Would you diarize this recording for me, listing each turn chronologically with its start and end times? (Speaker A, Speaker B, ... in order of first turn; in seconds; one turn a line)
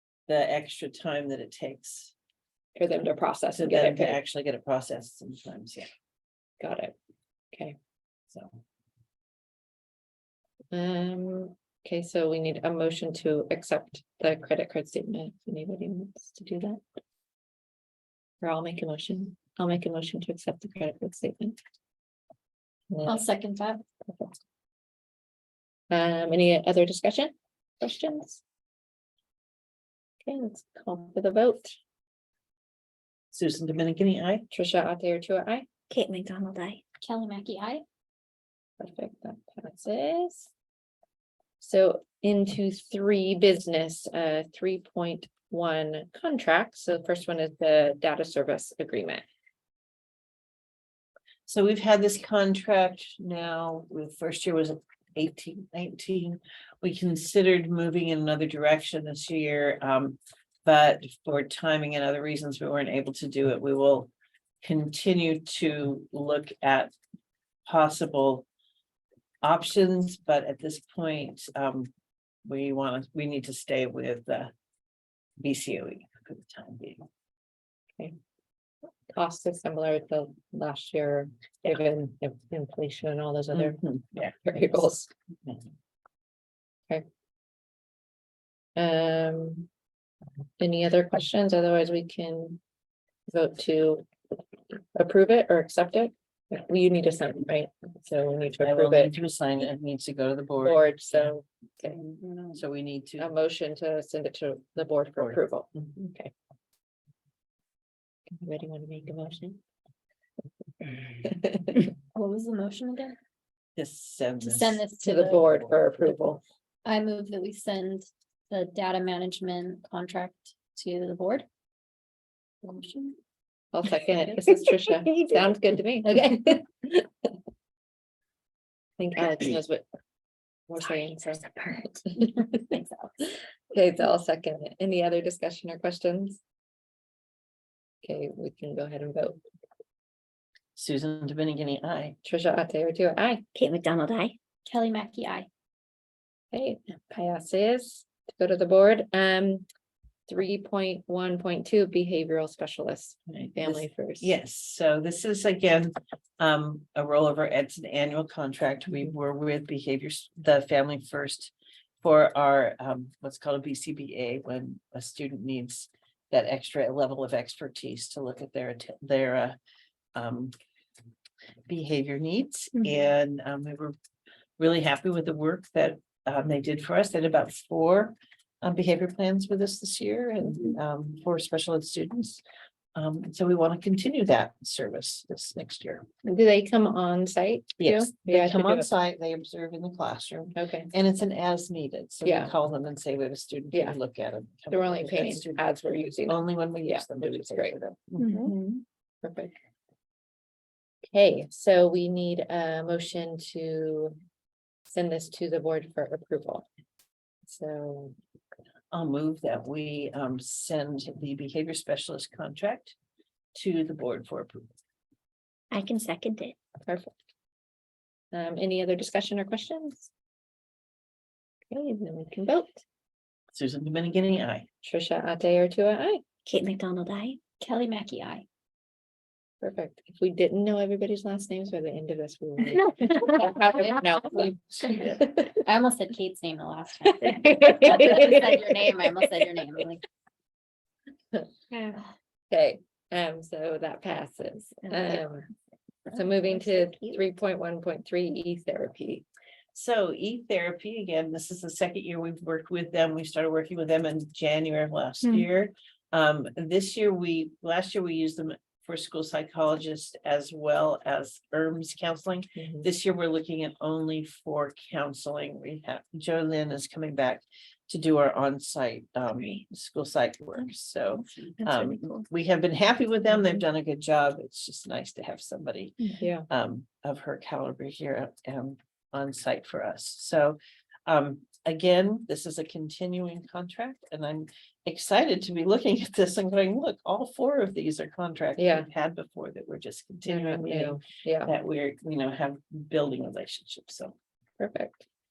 Speaker A: 0.3-2.1
Speaker B: 2.8-4.2
Speaker A: 3.5-5.9
Speaker B: 6.6-6.9
Speaker A: 8.3-8.6
Speaker B: 10.7-16.8
Speaker B: 18.4-21.6
Speaker B: 22.9-23.2
Speaker C: 23.1-23.8
Speaker B: 25.9-28.4
Speaker B: 30.2-31.7
Speaker A: 33.3-34.5
Speaker B: 34.5-35.7
Speaker D: 35.9-36.8
Speaker C: 37.0-37.8
Speaker B: 38.8-40.5
Speaker B: 41.6-49.2
Speaker A: 51.5-64.1
Speaker A: 64.6-66.9
Speaker A: 67.7-68.5
Speaker A: 69.4-71.9
Speaker A: 72.5-74.5
Speaker A: 75.4-77.1
Speaker B: 79.1-85.1
Speaker A: 83.5-84.3
Speaker B: 88.8-89.7
Speaker B: 90.6-92.6
Speaker B: 93.3-94.1
Speaker B: 94.7-99.1
Speaker A: 98.6-100.8
Speaker B: 100.6-102.0
Speaker A: 102.5-103.3
Speaker B: 103.2-106.3
Speaker B: 108.3-109.6
Speaker B: 111.0-111.8
Speaker C: 112.1-113.2
Speaker A: 113.8-114.8
Speaker C: 114.4-115.6
Speaker B: 115.0-116.4
Speaker C: 116.8-121.5
Speaker C: 122.7-123.1
Speaker B: 123.7-127.1
Speaker D: 124.9-125.4
Speaker B: 129.0-129.8
Speaker B: 130.7-132.7
Speaker D: 130.8-131.9
Speaker C: 132.5-133.1
Speaker B: 133.7-136.4
Speaker B: 138.0-139.4
Speaker A: 140.8-142.2
Speaker B: 142.2-143.4
Speaker D: 143.5-144.3
Speaker C: 144.7-145.5
Speaker B: 146.5-149.6
Speaker B: 150.3-154.3
Speaker A: 153.3-169.6
Speaker A: 170.1-170.5
Speaker A: 171.7-173.9
Speaker A: 174.6-182.4
Speaker A: 182.9-186.1
Speaker B: 186.2-188.9
Speaker A: 187.8-195.6
Speaker B: 190.5-190.9
Speaker B: 192.2-192.5
Speaker B: 193.7-194.0
Speaker B: 194.7-197.8
Speaker A: 196.2-198.5
Speaker C: 198.2-198.5
Speaker B: 199.2-199.5
Speaker B: 201.1-204.2
Speaker B: 204.9-206.7
Speaker B: 207.4-208.1
Speaker A: 208.9-212.9
Speaker A: 213.5-214.7
Speaker D: 215.7-216.5
Speaker B: 216.8-217.1
Speaker B: 218.3-220.1
Speaker B: 221.7-222.8
Speaker A: 223.5-224.7
Speaker B: 224.8-226.2
Speaker D: 226.4-227.4
Speaker C: 227.6-228.4
Speaker B: 229.6-235.5
Speaker D: 232.8-233.9
Speaker C: 235.5-240.0
Speaker B: 237.2-238.8
Speaker D: 241.7-242.0
Speaker B: 242.5-245.5
Speaker D: 244.9-245.2
Speaker D: 246.1-247.2
Speaker B: 246.1-249.2
Speaker A: 249.7-294.1
Speaker B: 262.6-262.9
Speaker D: 271.4-272.3
Speaker B: 276.1-276.5
Speaker B: 288.6-288.9
Speaker B: 290.2-291.5
Speaker B: 294.6-295.1